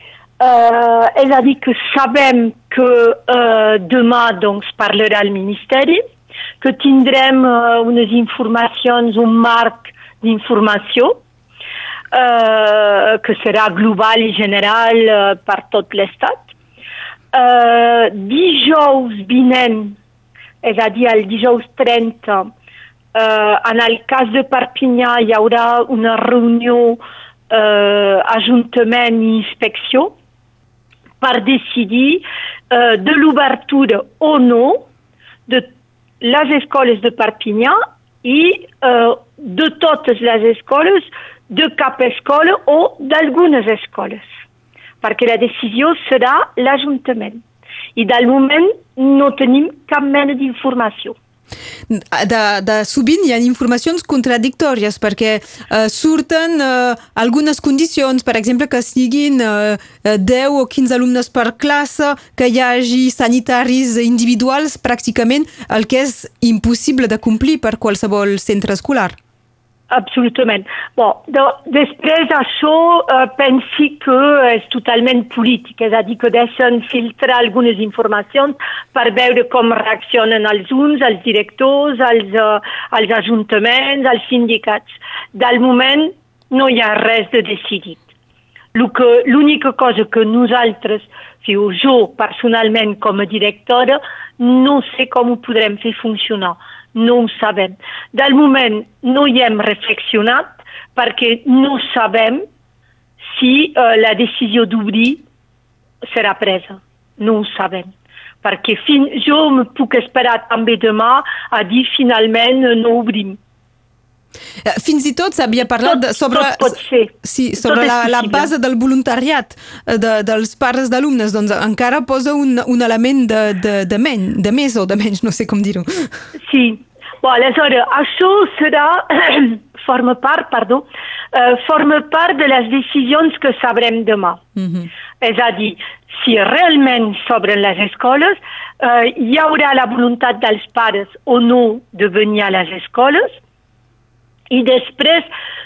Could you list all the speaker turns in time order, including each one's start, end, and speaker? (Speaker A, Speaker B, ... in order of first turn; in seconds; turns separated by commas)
Speaker A: 0.4-6.0, Speaker A: 6.6-11.2, Speaker A: 12.1-16.5, Speaker A: 17.3-19.9, Speaker A: 20.6-22.5, Speaker A: 23.1-30.1, Speaker A: 31.2-34.9, Speaker A: 36.2-44.2, Speaker A: 45.0-47.4, Speaker A: 48.0-51.1, Speaker B: 51.9-69.2, Speaker A: 69.9-88.0, Speaker A: 88.7-102.4, Speaker A: 103.2-105.2, Speaker A: 106.0-107.9, Speaker A: 108.4-113.4, Speaker B: 114.6-126.1, Speaker A: 115.8-118.5, Speaker A: 126.4-134.4, Speaker B: 134.6-134.9, Speaker A: 135.2-143.3, Speaker A: 144.5-145.3